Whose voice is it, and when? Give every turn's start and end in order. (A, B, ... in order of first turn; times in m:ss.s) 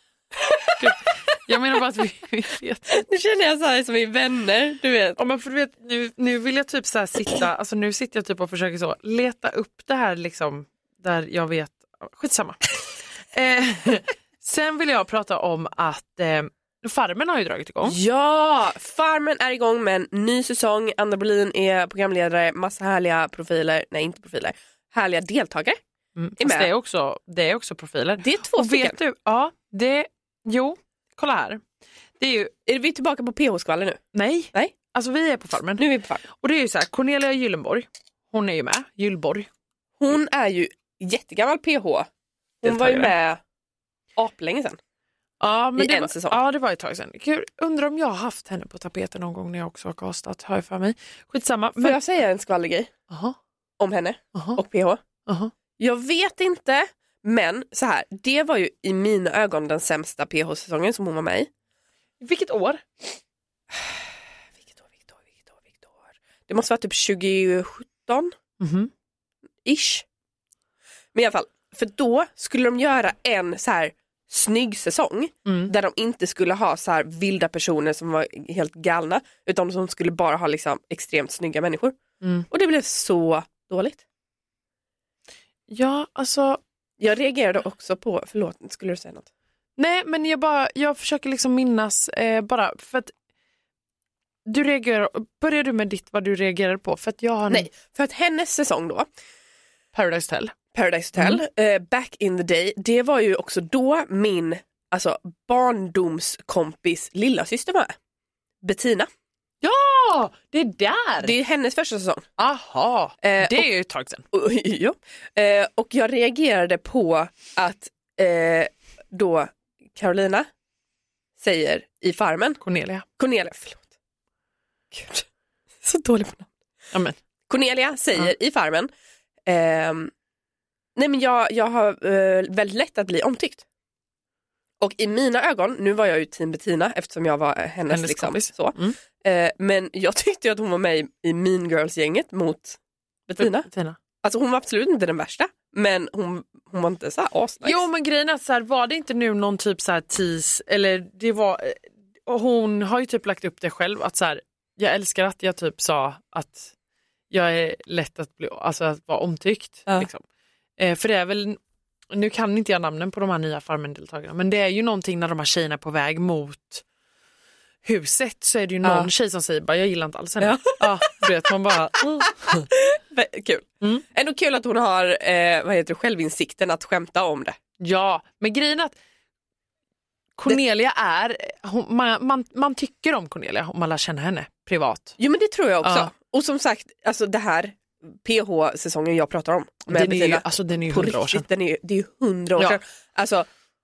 0:00.4-0:00.9 A
0:00.8-0:03.0 B
0:02.9-0:05.2 A
0:05.2-0:12.8 B
0:13.3-0:18.0 B
0:17.8-0:25.8 A
0:26.2-0:31.6 B
0:26.4-0:26.7 A
0:28.2-0:29.0 A
0:32.2-0:32.5 B
0:32.6-0:34.0 A
0:34.1-0:39.5 B
0:35.8-0:36.2 A
0:40.0-0:42.1 A
0:42.6-0:43.4 A
0:42.6-0:43.1 B
0:44.2-0:44.8 A
0:45.4-0:52.0 B
0:45.8-0:46.4 A
0:51.8-0:52.9 A
0:53.1-0:53.4 B
0:53.8-0:55.0 A
0:54.3-0:54.6 B
0:55.2-0:55.5 B
0:55.8-1:01.5 A
1:02.2-1:02.8 B
1:06.5-1:08.3 A
1:08.6-1:08.9 B
1:09.6-1:10.0 A
1:11.1-1:22.0 A
1:15.4-1:15.7 B
1:22.2-1:22.5 B
1:22.5-1:24.0 A
1:25.7-1:26.6 B
1:27.0-1:29.3 A
1:29.8-1:33.1 B
1:34.4-1:37.7 B
1:37.5-1:39.1 A
1:39.9-1:40.5 B
1:40.7-1:47.9 A
1:41.1-1:41.4 B
1:48.6-1:49.1 A
1:49.6-1:51.3 B
1:51.2-1:52.2 A
1:52.4-1:54.2 B
1:53.2-1:53.6 A
1:54.3-2:00.5 A
2:01.4-2:02.6 A
2:02.6-2:03.0 B
2:03.2-2:03.9 A
2:04.9-2:05.3 A
2:05.8-2:06.5 A
2:06.9-2:07.2 B
2:07.5-2:08.9 A
2:09.4-2:10.1 A
2:11.0-2:13.6 A
2:14.8-2:23.7 A
2:17.9-2:19.0 B
2:23.4-2:24.0 B
2:24.2-2:27.8 A
2:27.6-2:36.7 B
2:37.3-2:40.2 B
2:40.8-2:41.6 B
2:42.1-2:46.8 B
2:47.8-2:52.7 B
2:48.8-2:49.1 A
2:50.4-2:51.2 A
2:52.2-2:57.6 A
2:57.8-2:58.9 B
3:00.4-3:05.2 B
3:05.2-3:13.5 A
3:05.8-3:06.1 B
3:09.9-3:11.4 B